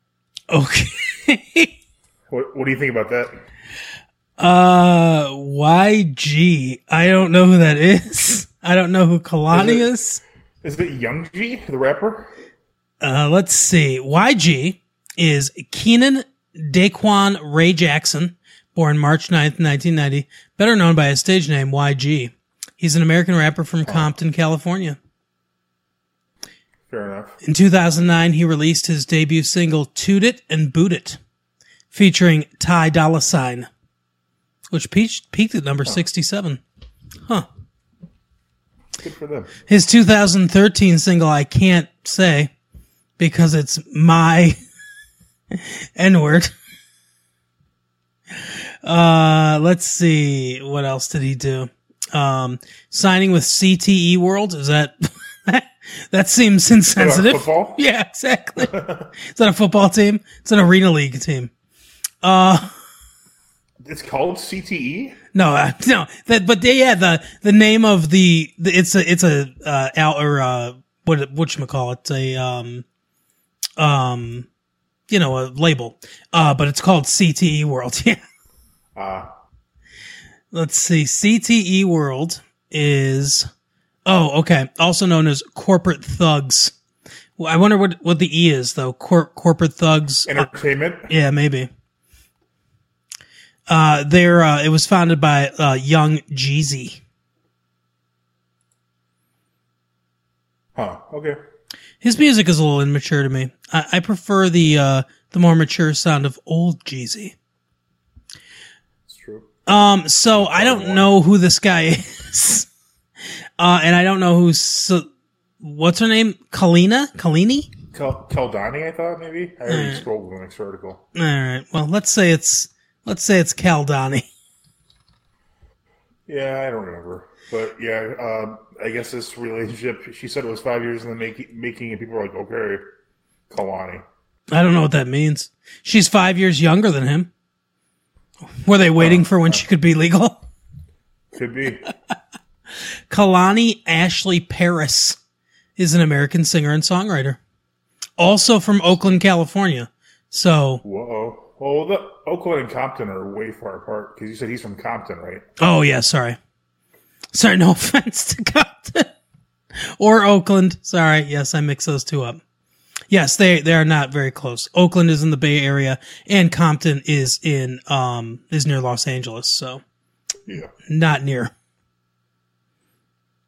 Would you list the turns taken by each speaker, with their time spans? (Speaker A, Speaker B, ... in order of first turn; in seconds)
Speaker A: 0.5-1.7, 4.4-10.2, 13.0-25.0, 27.4-31.2, 31.9-33.7, 34.7-36.6, 39.7-42.5, 43.2-44.6, 45.5-46.5, 48.8-61.5, 62.2-62.7, 65.3-72.8, 73.8-74.5, 75.1-78.2, 80.5-83.5, 84.0-86.7, 87.4-90.5, 91.1-91.7, 93.7-97.0, 102.0-107.3, 109.7-112.7, 113.6-115.0, 115.6-117.7, 119.7-120.0, 121.1-124.3, 134.5-137.3, 138.6-140.4, 143.1-145.2, 145.8-147.4, 148.2-150.8, 155.6-156.4, 157.3-159.1, 160.0-162.4, 163.1-169.8, 170.9-171.5
Speaker B: 2.3-3.4, 9.5-9.8, 10.6-12.3, 23.9-24.1, 26.9-27.4, 39.0-39.5, 56.9-57.8, 58.6-59.1, 63.8-65.2, 79.0-79.3, 90.3-91.1, 100.7-101.4, 109.1-109.5, 110.3-111.1, 117.9-121.0, 126.3-132.9, 133.5-134.0, 139.0-139.6, 141.3-141.9, 150.8-155.4, 170.4-170.7